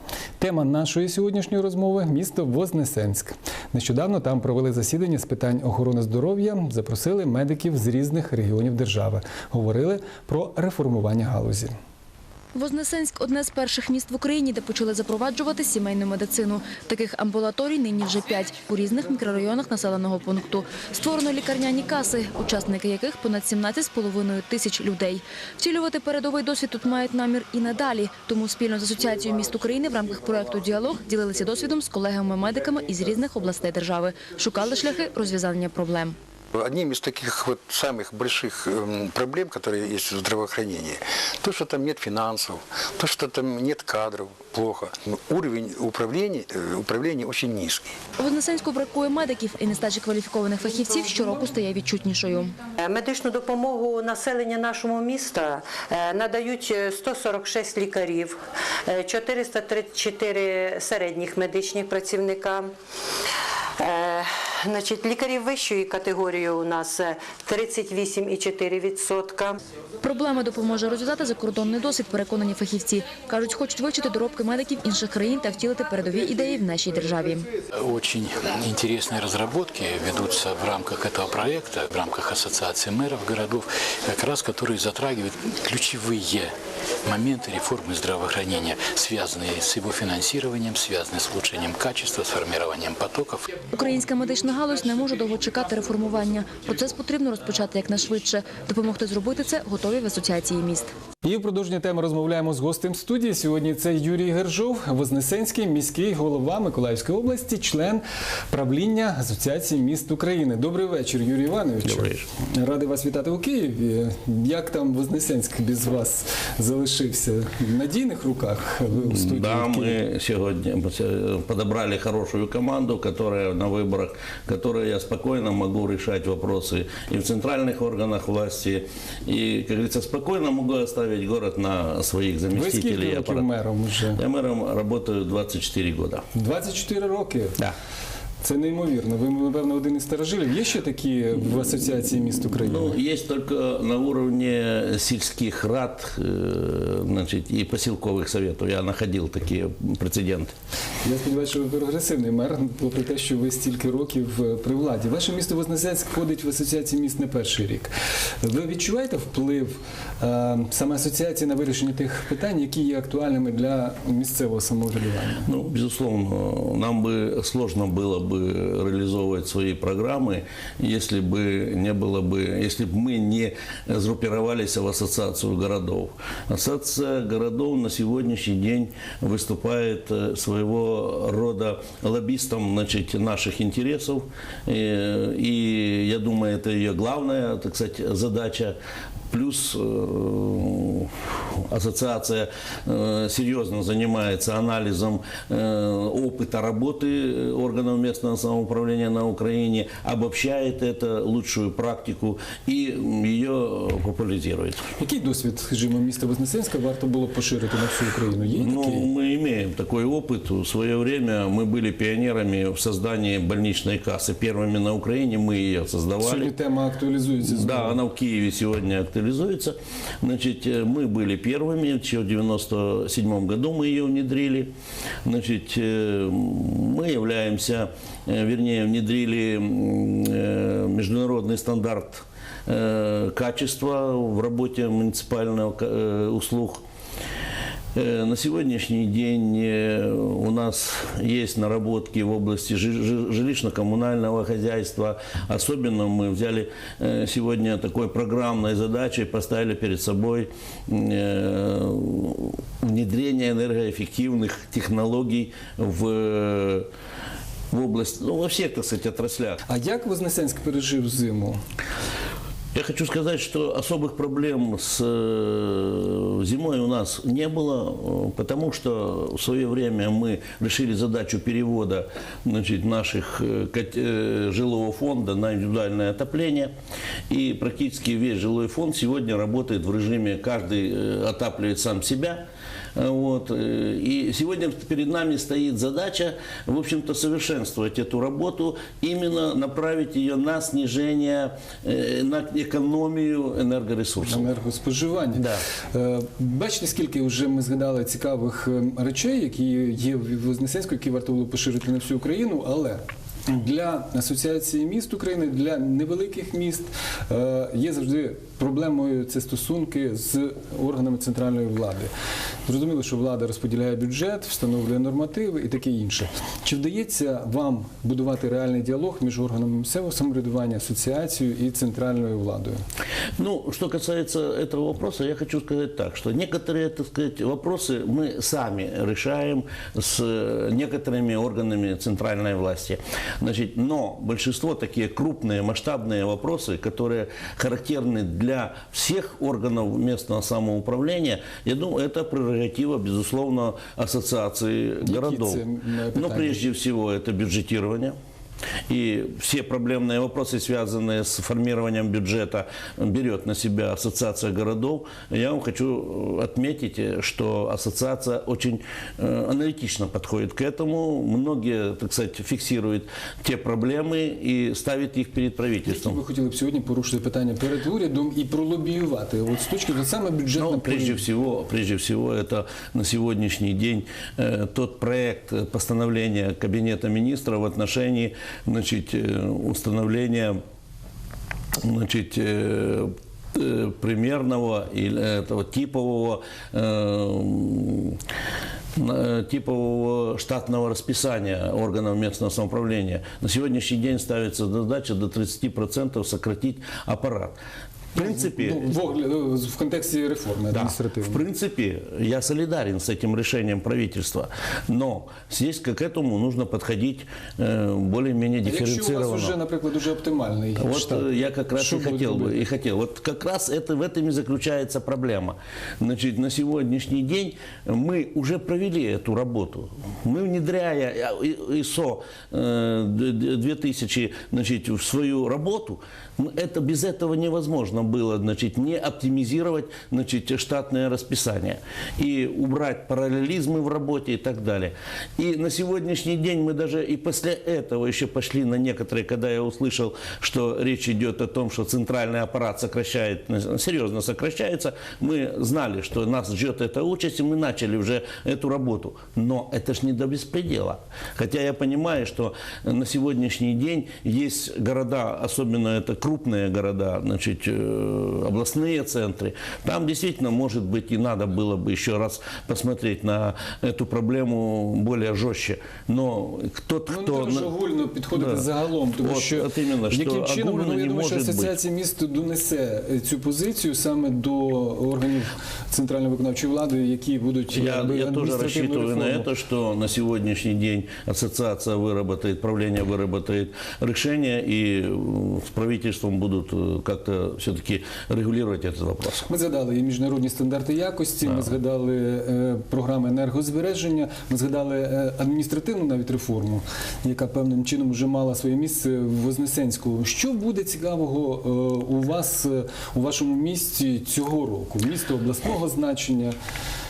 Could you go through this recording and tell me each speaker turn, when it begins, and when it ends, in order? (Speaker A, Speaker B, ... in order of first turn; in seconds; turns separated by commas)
Speaker A: 0.4-11.7, Speaker B: 12.5-36.1, Speaker C: 36.5-47.9, Speaker B: 48.2-52.5, Speaker D: 52.8-62.7, Speaker D: 63.8-69.6, Speaker B: 70.0-77.5, Speaker E: 77.8-86.5, Speaker E: 87.1-93.4, Speaker B: 93.7-100.9, Speaker A: 101.2-120.0, Speaker F: 111.8-112.3, Speaker F: 119.0-133.5, Speaker A: 132.5-134.2, Speaker F: 134.1-136.2, Speaker A: 136.3-137.6, Speaker A: 138.4-143.0, Speaker F: 141.9-150.5, Speaker A: 151.0-157.9, Speaker A: 158.4-165.4, Speaker F: 165.4-188.8, Speaker F: 189.3-191.1, Speaker F: 191.7-204.8, Speaker A: 205.0-209.1, Speaker F: 208.5-216.5, Speaker A: 216.2-218.0, Speaker F: 217.4-224.7, Speaker F: 225.2-236.8, Speaker F: 237.9-256.9, Speaker F: 257.7-259.6, Speaker A: 259.7-261.6, Speaker F: 262.7-276.7, Speaker F: 277.3-282.4, Speaker F: 282.9-294.5, Speaker A: 294.2-312.1, Speaker F: 295.3-295.6, Speaker A: 312.7-322.8, Speaker F: 323.4-348.1, Speaker A: 345.0-346.6, Speaker F: 348.9-366.2, Speaker A: 365.8-371.2, Speaker F: 370.6-380.6, Speaker F: 381.8-388.2, Speaker F: 388.9-397.6, Speaker F: 398.1-398.8, Speaker A: 398.1-401.4, Speaker F: 400.7-409.6, Speaker A: 408.6-412.6, Speaker F: 410.8-467.7, Speaker A: 467.1-479.5, Speaker F: 468.3-468.7, Speaker F: 469.2-471.8, Speaker F: 477.7-489.5, Speaker A: 489.4-506.5